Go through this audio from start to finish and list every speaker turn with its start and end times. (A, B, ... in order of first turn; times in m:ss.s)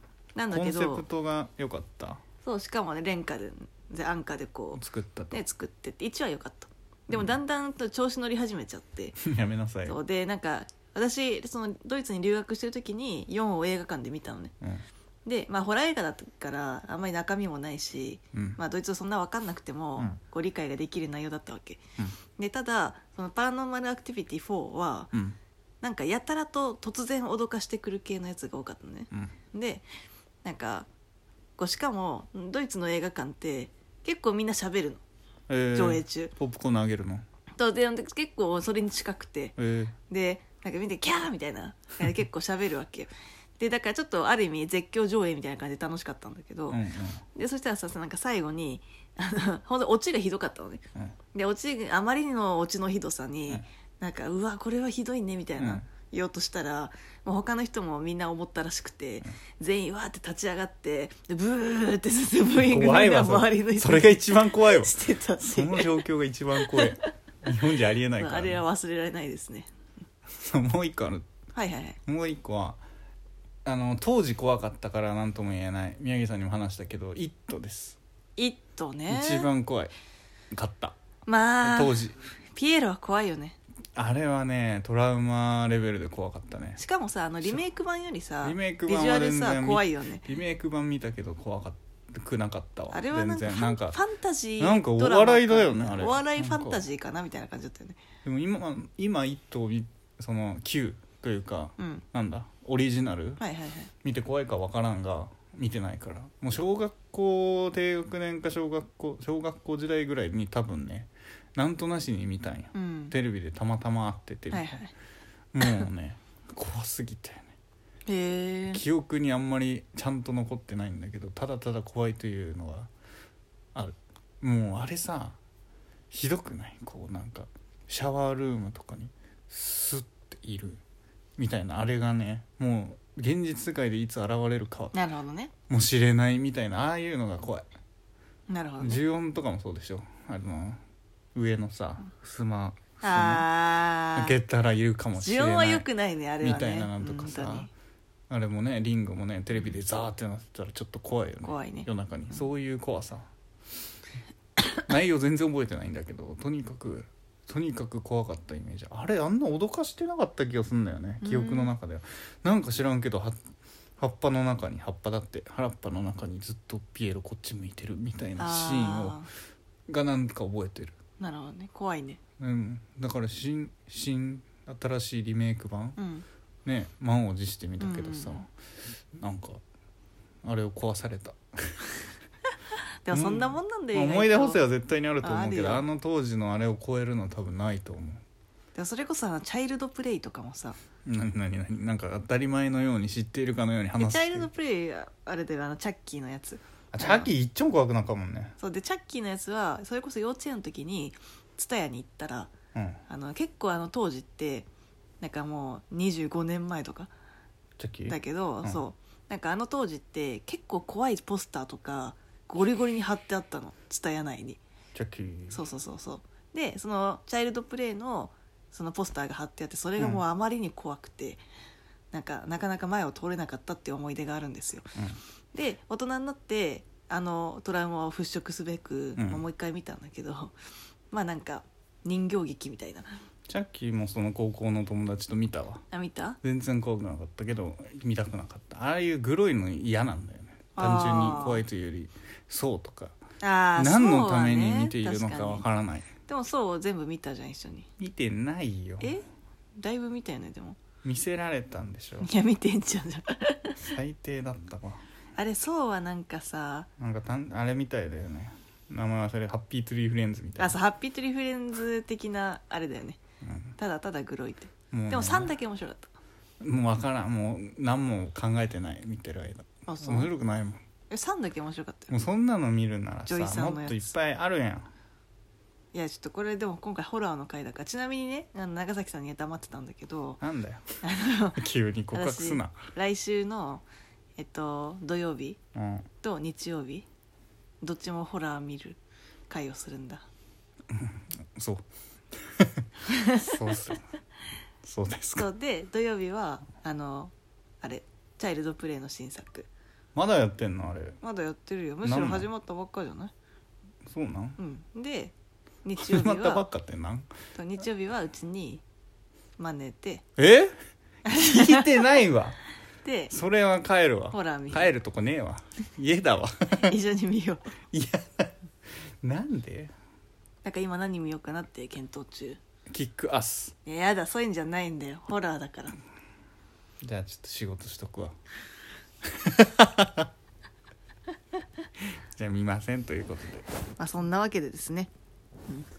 0:00.4-0:01.0 A
0:00.5-0:02.2 B
0:02.4-0:09.2 A
0:04.8-0:05.4 B
0:09.2-0:10.0 B
0:09.9-0:14.5 A
0:15.2-0:21.8 A
0:18.3-0:18.6 B
0:22.4-0:25.1 A
0:25.8-0:29.9 A
0:30.4-0:30.9 A
0:31.6-0:35.0 A
0:35.5-0:37.2 B
0:35.7-0:36.3 A
0:37.6-0:39.6 A
0:39.6-0:40.0 B
0:40.1-0:46.8 A
0:46.7-0:47.2 B
0:47.4-1:06.0 A
0:55.6-0:55.8 B
1:02.6-1:08.6 B
1:06.6-1:07.1 A
1:08.2-1:09.7 A
1:10.4-1:11.3 B
1:11.6-1:12.0 A
1:12.1-1:12.8 B
1:13.6-1:18.0 B
1:18.4-1:19.5 A
1:19.1-1:19.9 B
1:20.5-1:21.0 B
1:21.3-1:23.6 A
1:21.6-1:22.2 B
1:24.0-1:26.8 B
1:26.8-1:30.2 A
1:28.4-1:34.0 B
1:32.9-1:38.0 A
1:34.6-1:36.8 B
1:38.2-1:43.4 B
1:41.8-1:42.0 A
1:43.4-1:43.9 A
1:44.0-1:54.8 B
1:52.7-1:53.1 A
1:54.5-1:54.9 A
1:55.5-1:57.5 B
1:58.1-1:58.8 A
1:58.7-2:02.9 B
2:03.8-2:05.4 B
2:06.1-2:10.8 B
2:11.4-2:15.0 B
2:14.9-2:15.5 A
2:15.7-2:17.6 B
2:18.5-2:19.0 A
2:18.8-2:20.8 B
2:21.4-2:23.5 B
2:23.0-2:24.3 A
2:24.2-2:25.9 B
2:25.2-2:27.7 A
2:26.4-2:27.7 B
2:28.3-2:33.3 B
2:31.4-2:31.9 A
2:34.8-2:43.4 B
2:41.2-2:41.7 A
2:44.0-2:49.2 B
2:48.4-2:49.3 A
2:49.9-2:51.0 B
2:51.2-2:52.2 A
2:52.4-2:56.0 B
2:56.0-2:56.2 A
2:56.6-2:58.5 B
2:57.8-2:58.4 A
2:59.2-2:59.6 B
3:00.4-3:02.0 B
3:03.0-3:04.6 A
3:03.1-3:08.2 B
3:05.2-3:05.8 A
3:08.8-3:10.8 A
3:11.0-3:14.5 B
3:14.0-3:17.3 A
3:16.9-3:18.6 B
3:18.6-3:22.5 A
3:22.8-3:23.0 B
3:23.1-3:24.7 A
3:25.2-3:27.1 A
3:27.8-3:28.8 B
3:28.1-3:34.6 A
3:35.0-3:35.6 B
3:35.5-3:41.4 A
3:40.0-3:40.2 B
3:42.1-3:44.9 A
3:45.5-3:50.6 A
3:49.2-3:49.4 B
3:51.1-3:53.2 A
3:53.5-3:55.8 B
3:55.9-3:56.4 A
3:56.4-4:03.2 B
4:00.8-4:01.6 A
4:03.4-4:05.6 A
4:03.8-4:06.1 B
4:06.2-4:07.9 A
4:08.0-4:09.2 B
4:09.8-4:10.8 A
4:11.0-4:12.3 B
4:12.2-4:13.8 A
4:13.8-4:15.0 B
4:15.4-4:16.9 A
4:17.0-4:20.8 B
4:20.6-4:23.2 A
4:23.4-4:23.8 B
4:23.8-4:26.1 A
4:24.9-4:25.5 B
4:26.6-4:30.8 B
4:29.9-4:30.3 A
4:31.1-4:32.1 A
4:32.1-4:34.9 B
4:33.3-4:34.1 A
4:35.9-4:40.4 A
4:40.4-4:40.8 B
4:41.0-4:43.8 A
4:41.6-4:42.8 B
4:44.4-4:45.6 A
4:45.8-4:46.1 B
4:46.2-4:47.1 A
4:47.8-4:49.0 A
4:49.5-4:50.3 A
4:50.9-4:51.8 B
4:52.4-4:54.0 B
4:53.1-4:53.5 A
4:54.8-4:55.5 B
4:55.4-4:59.7 A
5:00.2-5:01.2 B
5:01.2-5:03.3 A
5:02.0-5:02.5 B
5:04.1-5:04.6 B
5:04.6-5:05.3 A
5:05.8-5:06.7 A
5:06.0-5:07.3 B
5:07.6-5:08.8 A
5:09.6-5:10.2 A
5:10.4-5:10.8 B
5:11.3-5:12.6 B
5:11.3-5:11.8 A
5:13.0-5:13.3 A
5:13.3-5:17.0 B
5:14.3-5:15.0 A
5:16.8-5:17.6 A
5:17.9-5:18.5 B
5:19.2-5:19.9 B
5:20.6-5:22.6 A
5:22.9-5:23.7 B
5:23.8-5:26.0 A
5:27.0-5:28.4 B
5:29.2-5:30.3 B
5:32.4-5:33.7 B
5:34.0-5:35.1 A